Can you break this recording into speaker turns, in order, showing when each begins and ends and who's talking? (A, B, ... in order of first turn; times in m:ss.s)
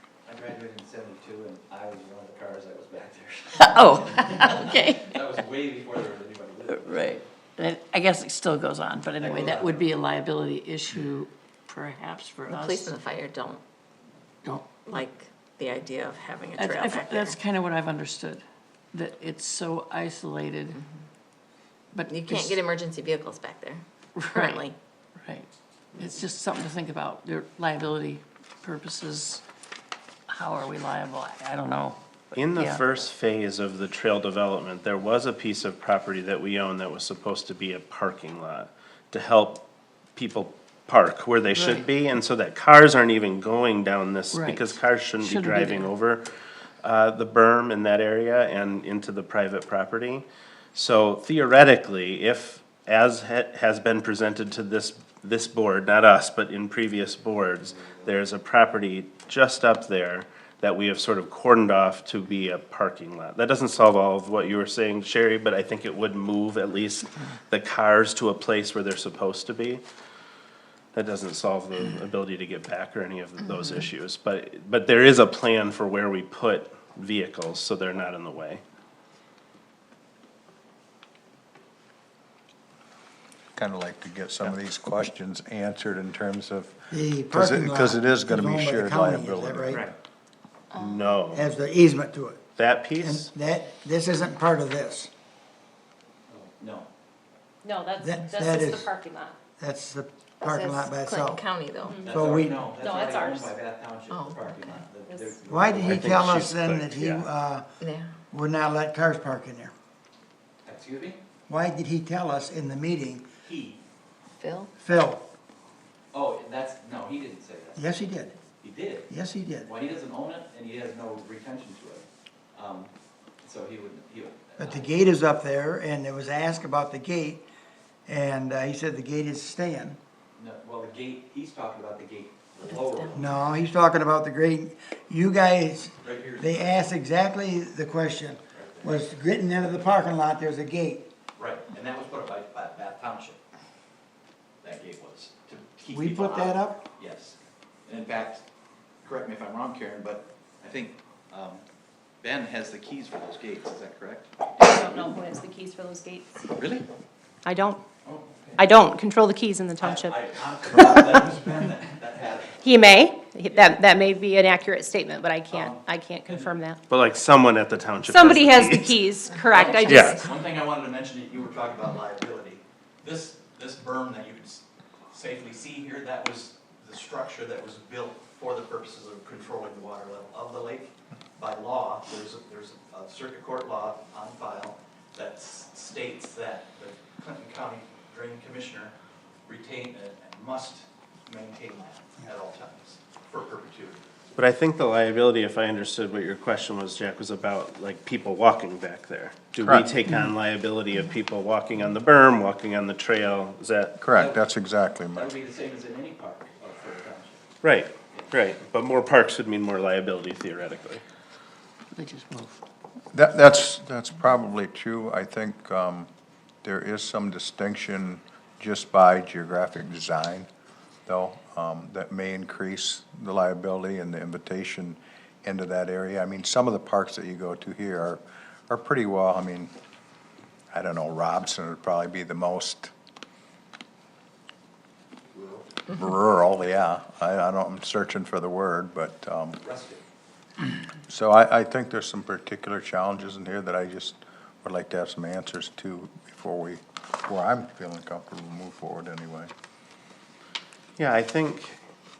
0:00.2-0:07.0 A
0:03.6-0:05.2 B
0:06.7-0:13.0 B
0:09.2-0:09.9 A
0:12.5-0:13.6 C
0:14.4-0:15.0 B
0:14.8-0:17.4 C
0:16.5-0:20.8 B
0:21.9-0:22.6 B
0:22.0-0:24.8 C
0:24.2-0:24.6 B
0:25.2-0:29.4 B
0:30.3-0:32.8 B
0:32.4-0:39.6 D
0:40.2-0:46.2 D
0:41.5-0:41.8 B
0:44.3-0:45.9 B
0:46.8-1:09.8 D
1:10.9-1:18.6 D
1:23.5-1:29.9 E
1:26.9-1:29.8 F
1:30.7-1:31.6 D
1:31.3-1:32.4 F
1:32.6-1:33.3 D
1:33.0-1:35.1 F
1:36.3-1:36.9 A
1:37.6-1:39.4 G
1:38.0-1:38.9 F
1:39.6-1:41.4 F
1:40.4-1:42.1 C
1:41.8-1:42.1 G
1:42.0-1:46.2 A
1:42.1-1:42.6 F
1:42.8-1:43.5 G
1:44.1-1:44.8 C
1:45.4-1:47.7 F
1:45.8-1:47.3 D
1:47.8-1:48.2 C
1:48.3-1:49.7 F
1:50.6-1:51.2 A
1:51.5-1:53.2 F
1:53.4-1:53.8 A
1:54.4-1:54.7 C
1:54.8-1:55.2 F
1:56.1-1:57.8 A
1:57.8-1:58.4 F
1:58.6-1:59.1 A
1:59.1-1:59.7 F
1:59.6-2:02.9 A
2:03.4-2:05.0 A
2:04.6-2:07.4 F
2:08.1-2:10.0 F
2:10.4-2:13.3 A
2:12.7-2:13.0 C
2:13.1-2:21.0 F
2:16.0-2:16.9 A
2:18.5-2:20.0 A
2:21.4-2:23.4 A
2:24.6-2:28.4 A
2:25.9-2:26.8 F
2:29.0-2:31.6 A
2:32.2-2:35.2 A
2:34.6-2:36.4 G
2:36.5-2:36.8 A
2:37.4-2:37.8 G
2:38.0-2:38.7 A
2:38.6-2:40.2 G
2:39.8-2:42.9 A
2:40.8-2:41.2 G
2:42.6-2:46.8 G
2:43.4-2:44.1 A
2:45.5-2:46.6 A
2:46.9-2:49.1 D
2:48.0-2:50.1 G
2:49.4-2:50.4 C
2:49.5-3:08.9 A
2:49.9-2:50.2 D
3:09.4-3:14.0 A
3:14.4-3:24.0 D
3:19.6-3:19.9 E
3:24.0-3:25.4 E
3:24.1-3:24.4 A
3:25.1-3:27.4 A
3:27.6-3:31.0 D
3:31.9-3:32.6 B
3:33.1-3:36.1 E
3:36.6-3:40.5 E
3:41.1-3:49.7 E
3:50.7-3:52.9 E
3:55.3-3:55.7 A
3:55.9-3:59.6 E
3:59.6-4:00.0 A
4:01.1-4:09.5 E
4:11.0-4:11.8 D